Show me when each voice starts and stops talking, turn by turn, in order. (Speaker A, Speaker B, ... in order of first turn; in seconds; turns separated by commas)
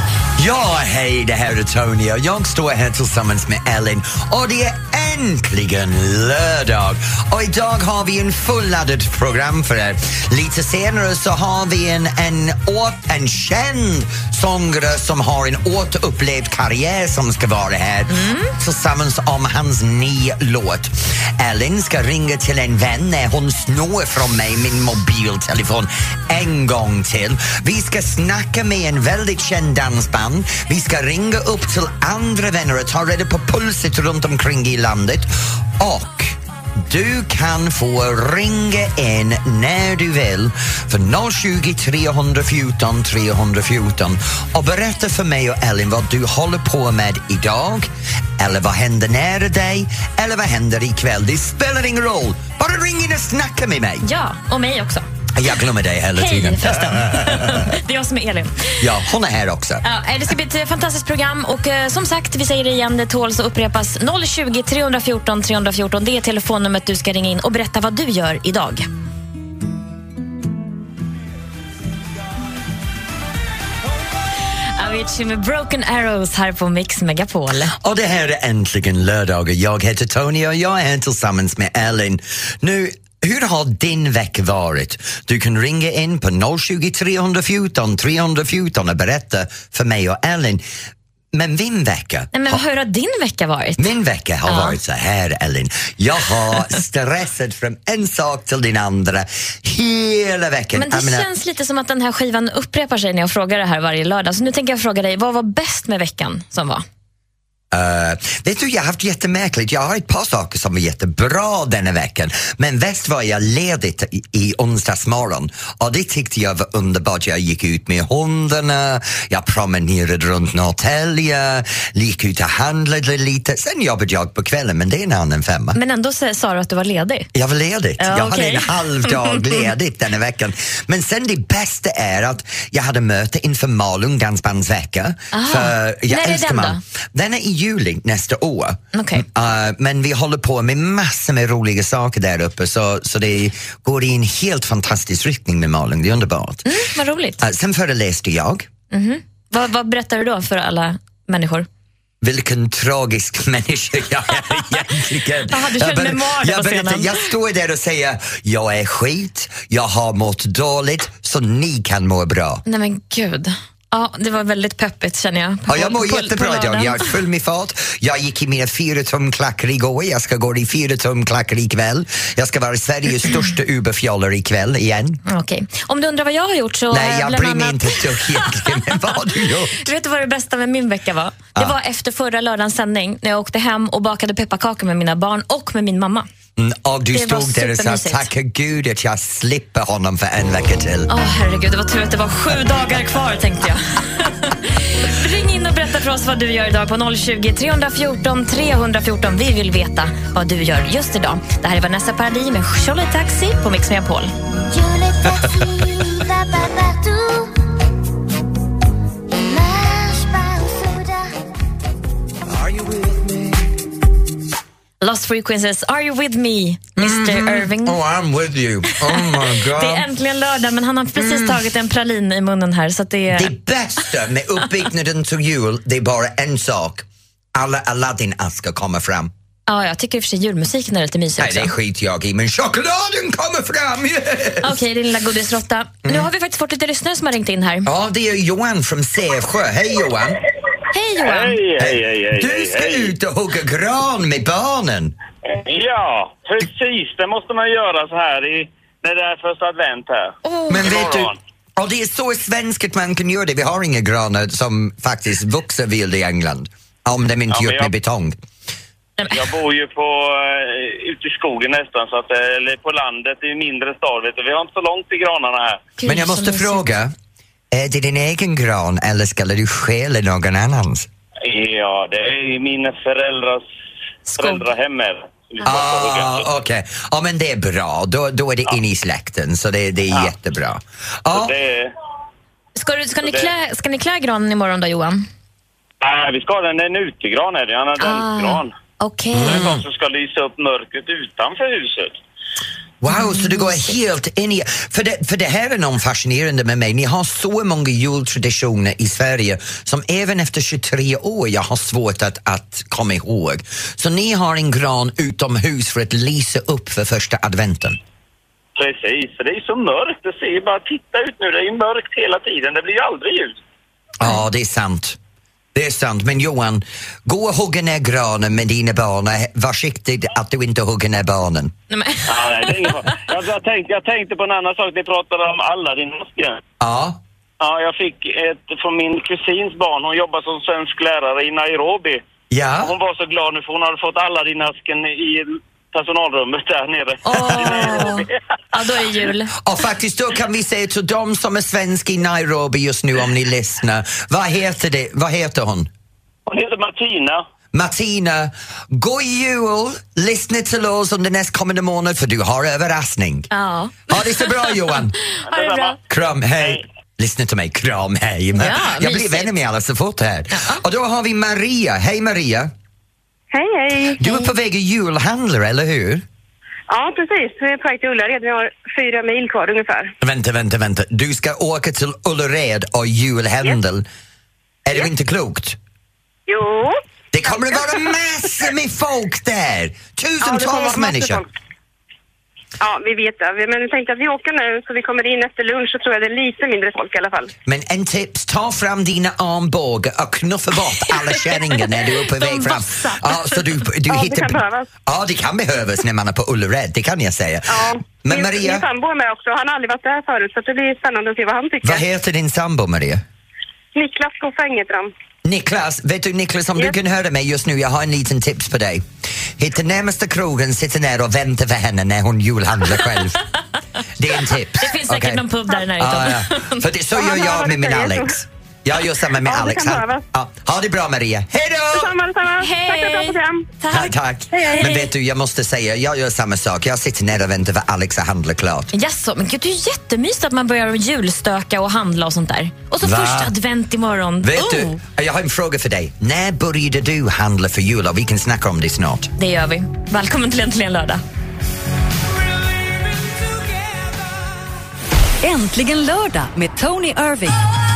Speaker A: 0.4-54.1, Speaker B: 18.1-18.6, Speaker B: 54.0-55.1, Speaker A: 55.4-57.7, Speaker B: 56.2-58.8, Speaker A: 58.8-59.8, Speaker B: 59.8-68.9, Speaker B: 74.8-77.7, Speaker A: 77.7-90.6, Speaker A: 91.3-92.6, Speaker B: 92.3-93.9, Speaker A: 93.8-101.3, Speaker B: 94.5-94.8, Speaker B: 100.8-106.8, Speaker A: 107.7-125.8, Speaker B: 125.8-127.3, Speaker A: 127.3-146.7, Speaker B: 128.0-129.6, Speaker B: 135.3-136.8, Speaker B: 138.9-139.2, Speaker B: 146.7-147.4, Speaker A: 147.4-148.7, Speaker B: 148.9-151.7, Speaker A: 152.2-162.6, Speaker B: 155.5-157.3, Speaker B: 162.7-167.1, Speaker A: 165.7-175.2, Speaker B: 175.3-179.2, Speaker A: 176.9-179.9, Speaker B: 179.8-186.3, Speaker A: 186.6-191.1, Speaker B: 187.1-188.3, Speaker B: 191.1-204.3, Speaker C: 204.7-207.7, Speaker C: 209.3-211.3, Speaker A: 212.5-213.7, Speaker B: 215.0-218.0, Speaker A: 217.0-220.1, Speaker B: 218.9-223.5, Speaker A: 221.2-221.6, Speaker A: 223.3-229.3, Speaker B: 229.7-231.7, Speaker A: 231.4-234.8, Speaker B: 234.6-237.9, Speaker A: 237.9-240.4, Speaker B: 240.9-241.6, Speaker D: 241.2-243.1, Speaker A: 241.8-245.2, Speaker D: 245.4-251.4, Speaker B: 250.4-250.9, Speaker A: 250.7-258.4, Speaker D: 257.5-257.9, Speaker B: 259.2-259.5, Speaker D: 259.3-266.0, Speaker B: 266.0-266.9, Speaker A: 266.1-267.1, Speaker A: 267.7-271.1, Speaker D: 271.4-273.6, Speaker B: 274.3-274.6, Speaker D: 274.3-276.5, Speaker A: 275.6-281.5, Speaker D: 281.3-281.9, Speaker B: 282.8-285.3, Speaker D: 283.2-283.5, Speaker D: 286.0-288.8, Speaker B: 288.0-289.6, Speaker A: 289.3-289.8, Speaker D: 289.4-292.2, Speaker A: 293.0-308.0, Speaker B: 293.1-294.0, Speaker D: 308.8-313.6, Speaker A: 314.2-315.2, Speaker A: 315.7-321.7, Speaker B: 321.9-322.9, Speaker D: 322.2-326.6, Speaker A: 326.8-327.2, Speaker D: 327.6-332.2, Speaker A: 332.5-332.9, Speaker D: 332.8-338.4, Speaker B: 337.2-339.5, Speaker A: 337.3-338.0, Speaker A: 339.6-345.9, Speaker D: 346.5-347.5, Speaker A: 347.7-353.5, Speaker B: 353.5-356.0, Speaker A: 354.1-355.1, Speaker D: 355.5-356.0, Speaker A: 356.1-362.7, Speaker B: 358.5-359.5, Speaker B: 360.5-360.8, Speaker E: 363.5-364.2, Speaker A: 364.2-366.2, Speaker E: 366.9-370.1, Speaker A: 370.2-374.1, Speaker A: 374.9-375.8, Speaker E: 376.5-376.9, Speaker A: 377.3-381.4, Speaker E: 377.5-378.0, Speaker E: 380.4-381.5, Speaker E: 382.8-387.5, Speaker A: 387.7-398.9, Speaker B: 391.3-393.8, Speaker E: 394.1-394.9, Speaker E: 397.7-402.0, Speaker A: 401.8-403.2, Speaker E: 403.9-405.1, Speaker A: 405.4-409.1, Speaker A: 409.6-413.4, Speaker A: 414.2-422.1, Speaker B: 414.8-416.9, Speaker E: 417.1-418.3, Speaker E: 419.4-420.2, Speaker E: 421.9-423.7, Speaker B: 422.6-424.9, Speaker A: 423.9-428.9, Speaker E: 424.6-424.9, Speaker B: 428.9-435.0, Speaker A: 433.0-433.5, Speaker A: 434.4-439.3, Speaker B: 439.4-441.2, Speaker F: 445.4-447.6